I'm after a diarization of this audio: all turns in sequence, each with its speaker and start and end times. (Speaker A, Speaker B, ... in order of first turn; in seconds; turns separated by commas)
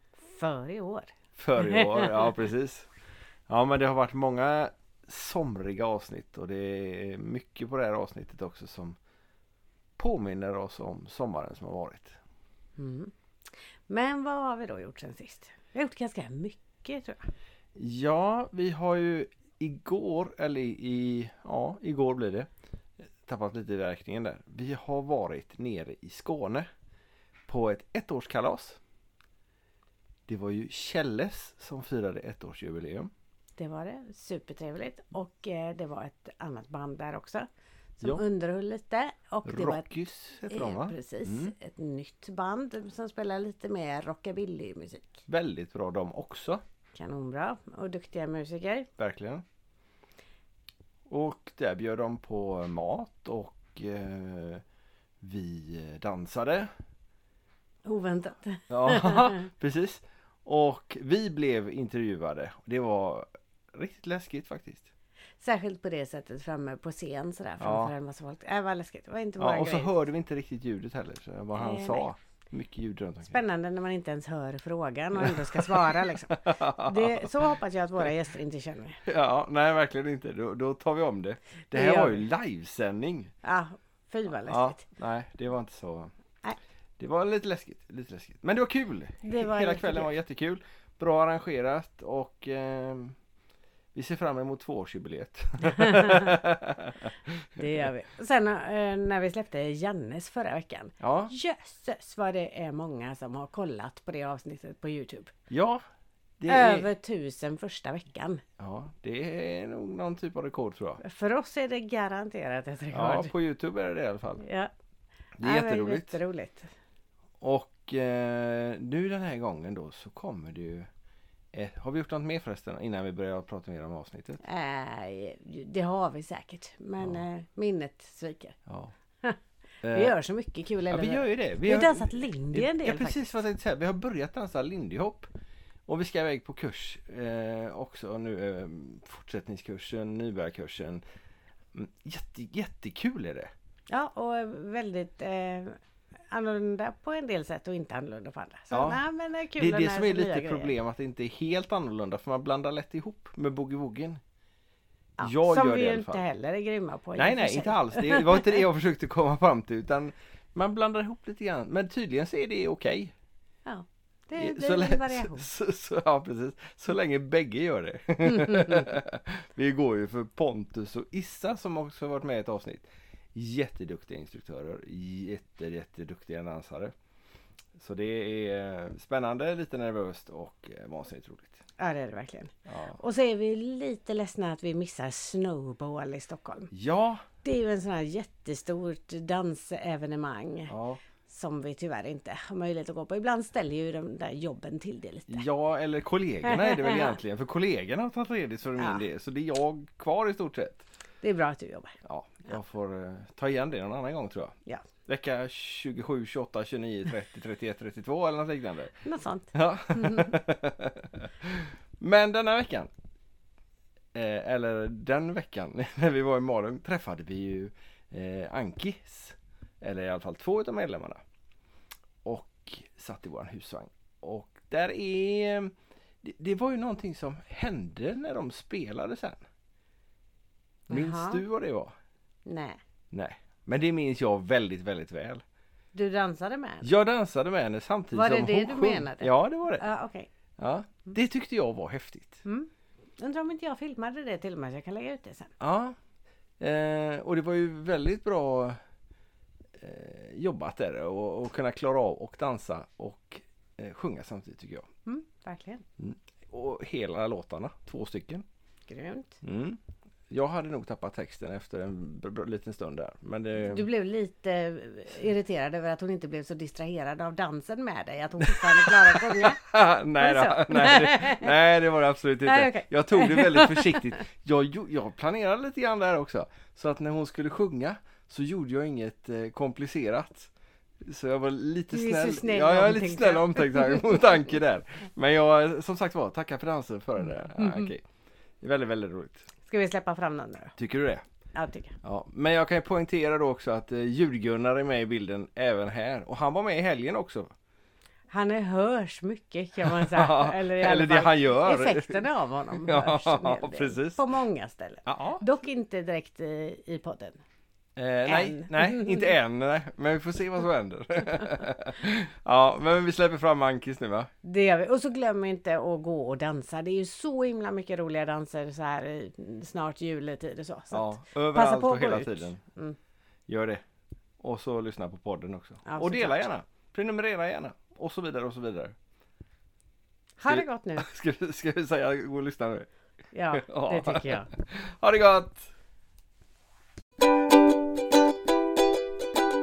Speaker A: 0.2-2.2, Speaker B: 1.4-2.9, Speaker B: 3.5-9.0, Speaker B: 10.0-12.2, Speaker A: 12.8-13.1, Speaker A: 13.9-17.2, Speaker B: 17.8-22.5, Speaker B: 23.2-26.7, Speaker B: 27.5-28.8, Speaker B: 30.3-33.1, Speaker A: 33.6-37.5, Speaker A: 38.0-39.9, Speaker B: 39.5-41.5, Speaker A: 40.5-45.2, Speaker B: 45.3-46.6, Speaker A: 47.0-48.9, Speaker B: 49.0-49.4, Speaker B: 51.1-54.6, Speaker B: 55.2-56.7, Speaker A: 57.9-59.3, Speaker B: 58.7-64.9, Speaker A: 65.4-69.9, Speaker B: 67.6-67.9, Speaker B: 69.4-73.4, Speaker A: 71.6-72.1, Speaker A: 73.3-79.0, Speaker B: 75.2-77.3, Speaker B: 79.0-83.3, Speaker A: 81.8-82.2, Speaker A: 83.4-84.8, Speaker B: 84.5-86.1, Speaker B: 87.0-93.2, Speaker A: 89.2-90.1, Speaker B: 93.9-97.8, Speaker A: 95.9-96.2, Speaker A: 97.6-105.3, Speaker B: 101.0-101.3, Speaker B: 105.5-105.8, Speaker B: 106.4-106.9, Speaker A: 106.5-108.4, Speaker B: 108.6-111.0, Speaker A: 111.0-113.3, Speaker B: 112.9-114.4, Speaker A: 114.4-114.7, Speaker B: 115.4-116.2, Speaker A: 115.4-116.7, Speaker B: 117.4-120.9, Speaker B: 121.5-124.4, Speaker A: 124.4-128.6, Speaker B: 128.7-128.9, Speaker B: 129.8-130.1, Speaker A: 129.9-133.3, Speaker B: 130.9-135.3, Speaker B: 135.9-141.0, Speaker B: 141.8-143.5, Speaker A: 143.9-145.8, Speaker A: 146.3-150.7, Speaker B: 148.7-149.0, Speaker B: 149.6-154.2, Speaker A: 155.2-158.4, Speaker B: 155.2-156.2, Speaker B: 157.2-163.1, Speaker A: 163.7-165.5, Speaker B: 164.4-176.9, Speaker A: 168.3-168.9, Speaker B: 177.8-181.6, Speaker A: 181.8-186.7, Speaker B: 182.7-183.0, Speaker B: 186.7-187.2, Speaker A: 187.4-190.7, Speaker B: 190.7-191.0, Speaker A: 191.3-195.4, Speaker B: 195.3-200.8, Speaker A: 196.4-197.2, Speaker A: 201.2-201.9, Speaker B: 202.0-204.5, Speaker B: 205.1-209.0, Speaker A: 209.1-210.3, Speaker B: 209.5-212.9, Speaker B: 214.2-221.2, Speaker B: 222.2-229.4, Speaker A: 230.9-231.4, Speaker B: 230.9-231.9, Speaker A: 232.5-232.8, Speaker B: 233.1-235.4, Speaker A: 235.9-236.9, Speaker B: 236.8-239.8, Speaker A: 238.1-240.3, Speaker B: 240.6-242.4, Speaker A: 242.4-245.5, Speaker B: 245.6-246.0, Speaker B: 246.6-248.8, Speaker B: 249.8-254.9, Speaker A: 255.1-255.8, Speaker B: 256.0-258.4, Speaker A: 258.9-259.3, Speaker B: 259.4-259.8, Speaker B: 260.3-263.9, Speaker A: 263.6-269.6, Speaker B: 268.5-280.5, Speaker A: 270.2-271.5, Speaker A: 272.4-274.0, Speaker B: 281.0-288.0, Speaker A: 281.9-284.2, Speaker A: 287.6-287.9, Speaker B: 288.6-289.5, Speaker A: 289.7-290.7, Speaker B: 290.8-291.2, Speaker A: 291.6-291.9, Speaker B: 292.0-297.5, Speaker A: 298.3-307.4, Speaker B: 299.9-302.2, Speaker B: 302.9-304.2, Speaker B: 305.1-305.4, Speaker B: 308.0-314.3, Speaker A: 308.3-309.3, Speaker A: 314.4-323.0, Speaker B: 320.9-322.6, Speaker B: 323.5-323.8, Speaker B: 324.4-328.9, Speaker A: 325.9-326.5, Speaker A: 330.4-331.1, Speaker B: 330.5-332.9, Speaker A: 333.3-334.5, Speaker B: 333.5-335.6